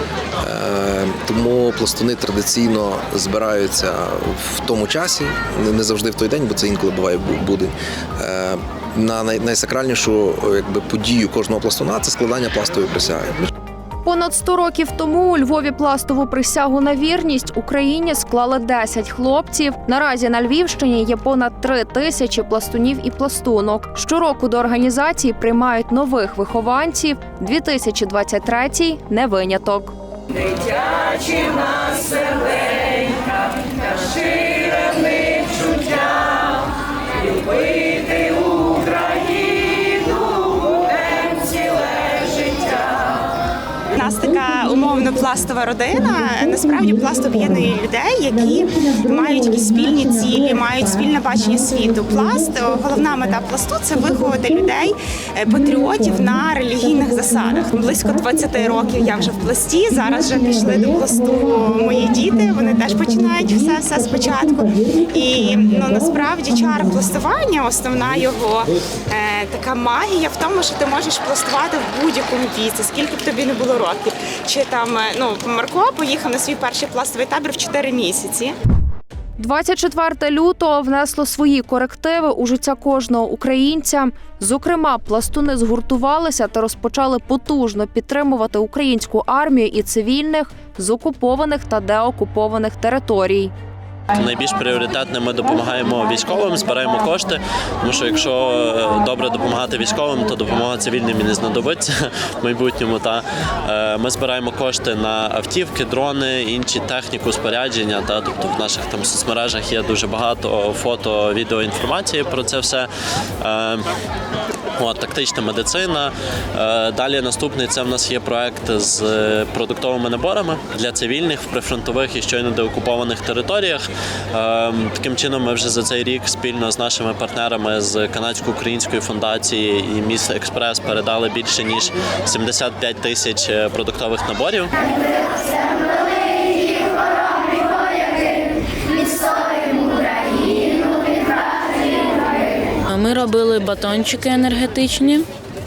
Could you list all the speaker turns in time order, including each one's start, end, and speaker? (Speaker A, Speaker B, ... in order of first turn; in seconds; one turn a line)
Speaker A: 0.4-13.4
Speaker B: 14.0-29.9
Speaker C: 43.9-78.5
Speaker B: 79.4-93.5
Speaker D: 94.1-112.9
Speaker D: 113.4-113.8
Speaker D: 114.8-134.7
Speaker E: 142.9-145.2